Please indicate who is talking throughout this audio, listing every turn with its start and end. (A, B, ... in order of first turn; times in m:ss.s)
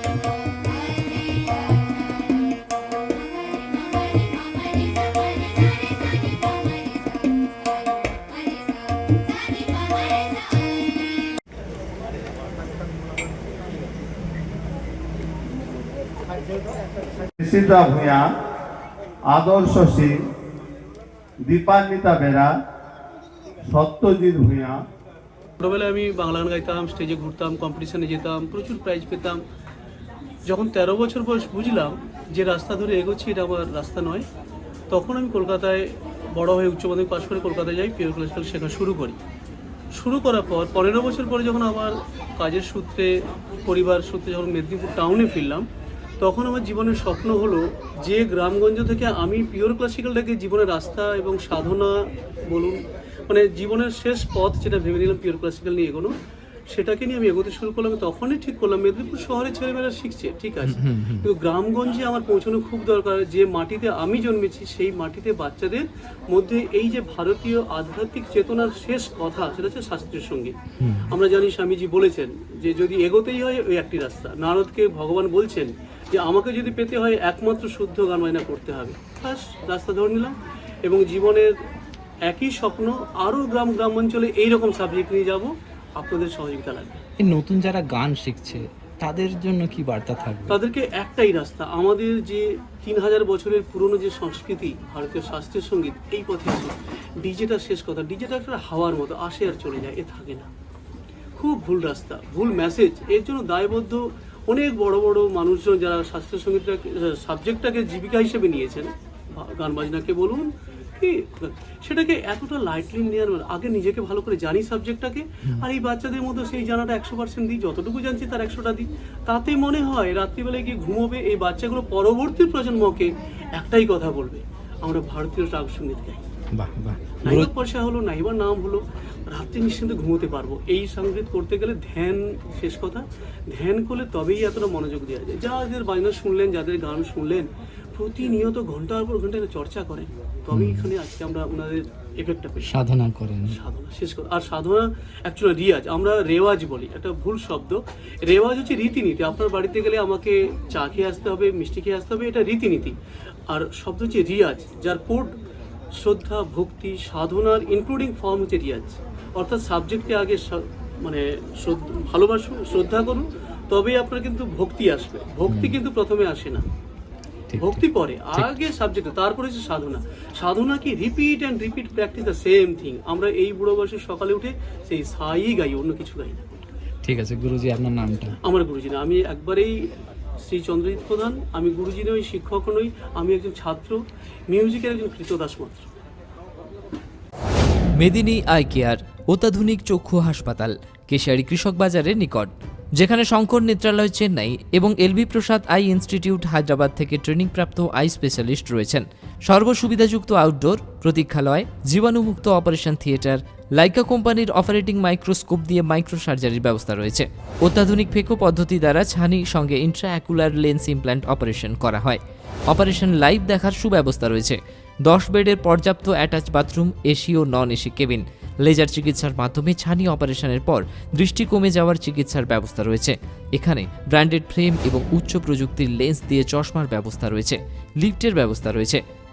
0:17.4-0:18.3 A
0:19.3-0:20.2 A
0:21.4-0:22.5 A
0:23.7-0:24.8 A
0:25.6-0:29.4 B
0:30.5-0:34.3 B
0:34.9-0:35.8 B
0:36.4-0:39.2 B
0:40.0-0:43.1 B
0:43.6-0:45.6 B
0:46.2-0:51.9 B
0:52.5-0:56.1 B
0:56.7-1:10.6 B
1:00.7-1:01.3 C
1:10.8-1:11.1 C
1:11.1-1:21.5 B
1:22.3-1:27.0 B
1:27.2-1:30.6 C
1:30.5-1:40.5 B
1:41.4-2:06.2 B
2:06.5-2:07.5 C
2:07.2-2:22.7 B
2:20.5-2:20.9 C
2:22.6-2:23.6 C
2:23.5-2:33.0 B
2:33.5-2:35.3 B
2:36.0-2:46.6 B
2:45.5-2:45.8 C
2:47.5-2:48.5 C
2:47.6-2:56.4 B
2:57.0-2:58.4 C
2:58.4-2:59.7 B
3:00.4-3:04.0 B
3:04.5-3:05.9 B
3:08.0-3:49.0 D